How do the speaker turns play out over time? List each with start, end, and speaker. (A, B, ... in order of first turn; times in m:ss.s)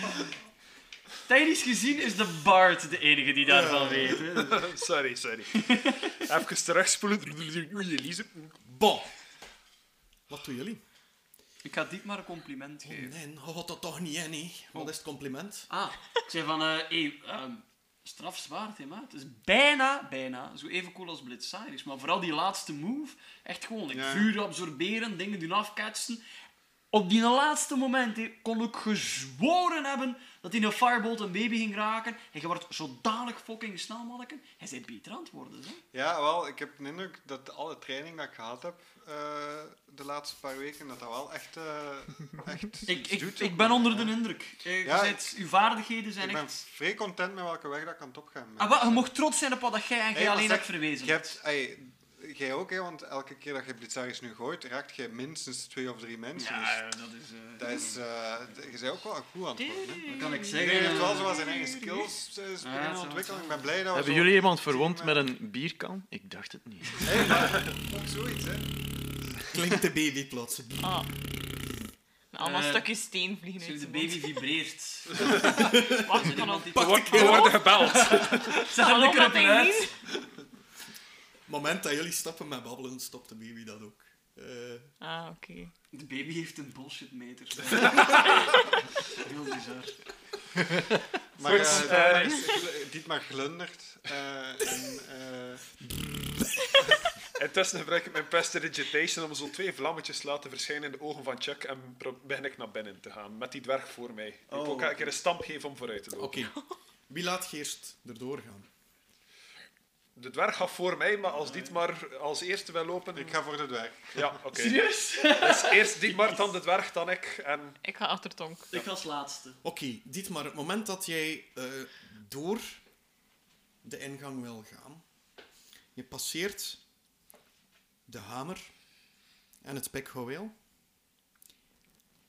0:01.3-0:04.7 A
0:03.4-0:04.2 B
0:04.3-0:08.5 C
0:05.6-0:06.1 A
0:08.6-0:09.1 B
0:10.3-0:10.8 B
0:11.6-0:13.1 A
0:12.8-0:15.7 B
0:15.7-0:26.2 A
0:23.9-0:24.3 D
0:26.9-0:35.8 A
0:35.9-0:44.2 D
0:42.8-0:46.5 A
0:44.8-0:45.4 D
0:46.2-0:49.1 D
0:48.6-0:51.4 A
0:50.1-0:56.8 D
0:56.4-0:58.0 A
0:57.6-1:05.3 D
0:59.6-1:02.1 E
1:00.0-1:01.5 A
1:02.6-1:03.7 A
1:03.9-1:07.3 F
1:07.0-1:08.7 D
1:09.5-1:11.1 B
1:10.8-1:11.1 E
1:12.3-1:14.4 E
1:12.4-1:12.9 A
1:13.6-1:19.9 A
1:15.2-1:20.0 E
1:15.4-1:17.8 B
1:16.8-1:18.6 C
1:21.5-1:24.9 B
1:25.0-1:25.7 E
1:25.9-1:30.0 A
1:31.4-1:35.7 D
1:31.4-1:32.4 C
1:31.5-1:32.1 A
1:32.2-1:32.4 E
1:35.8-1:36.9 B
1:37.3-1:46.5 C
1:44.5-1:45.1 A
1:46.2-1:46.6 B
1:47.1-1:48.7 B
1:50.2-1:53.4 C
1:51.3-1:51.8 A
1:53.1-1:54.3 D
1:54.1-1:57.8 C
1:54.5-1:56.4 A
1:57.8-1:58.7 E
1:58.7-1:59.6 A
1:59.6-2:02.8 B
2:03.8-2:05.0 B
2:05.9-2:06.8 B
2:08.1-2:08.7 B
2:09.6-2:10.5 B